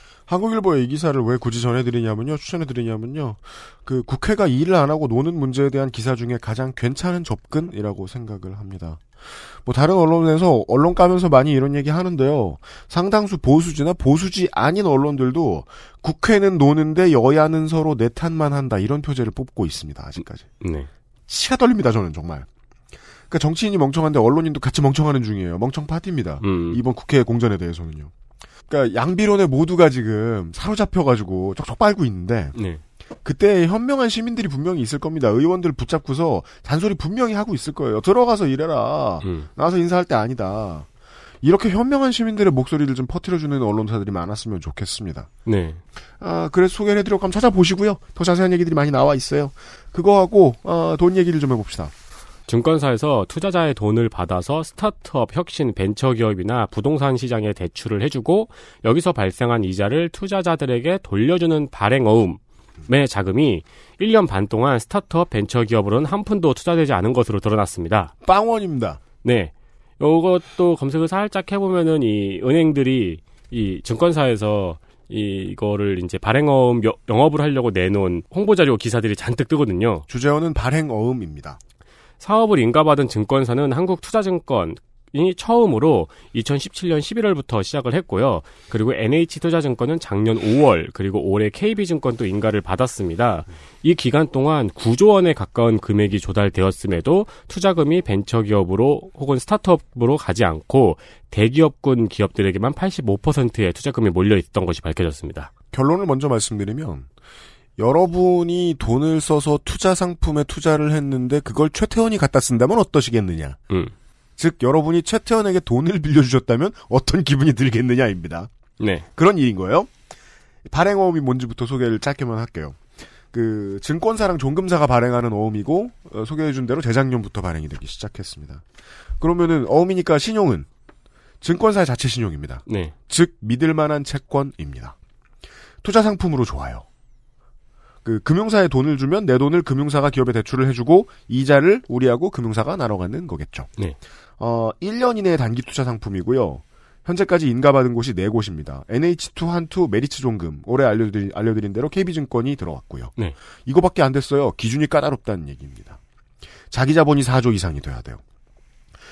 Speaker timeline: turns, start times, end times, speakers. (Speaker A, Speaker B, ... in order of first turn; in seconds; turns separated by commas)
Speaker A: 0.3-9.0, Speaker A: 9.6-20.5, Speaker B: 20.6-20.9, Speaker A: 21.3-22.5, Speaker A: 23.3-28.1, Speaker B: 26.4-26.8, Speaker A: 28.7-32.6, Speaker B: 32.6-32.8, Speaker A: 33.2-40.9, Speaker B: 39.2-39.5, Speaker A: 41.4-45.3, Speaker B: 45.5-45.8, Speaker A: 46.2-51.9, Speaker B: 52.5-68.1, Speaker A: 68.2-69.0, Speaker B: 69.2-80.1, Speaker A: 80.1-81.6, Speaker B: 82.2-105.5, Speaker A: 105.7-107.1, Speaker A: 107.8-113.6, Speaker A: 114.4-118.5, Speaker B: 118.8-119.1, Speaker A: 119.2-119.9, Speaker A: 120.7-122.8, Speaker A: 123.3-128.6, Speaker A: 129.2-130.7, Speaker A: 131.4-134.9, Speaker B: 132.7-132.9, Speaker A: 135.8-136.8, Speaker A: 138.1-143.7, Speaker A: 144.4-153.1, Speaker A: 153.7-156.0, Speaker A: 156.7-158.2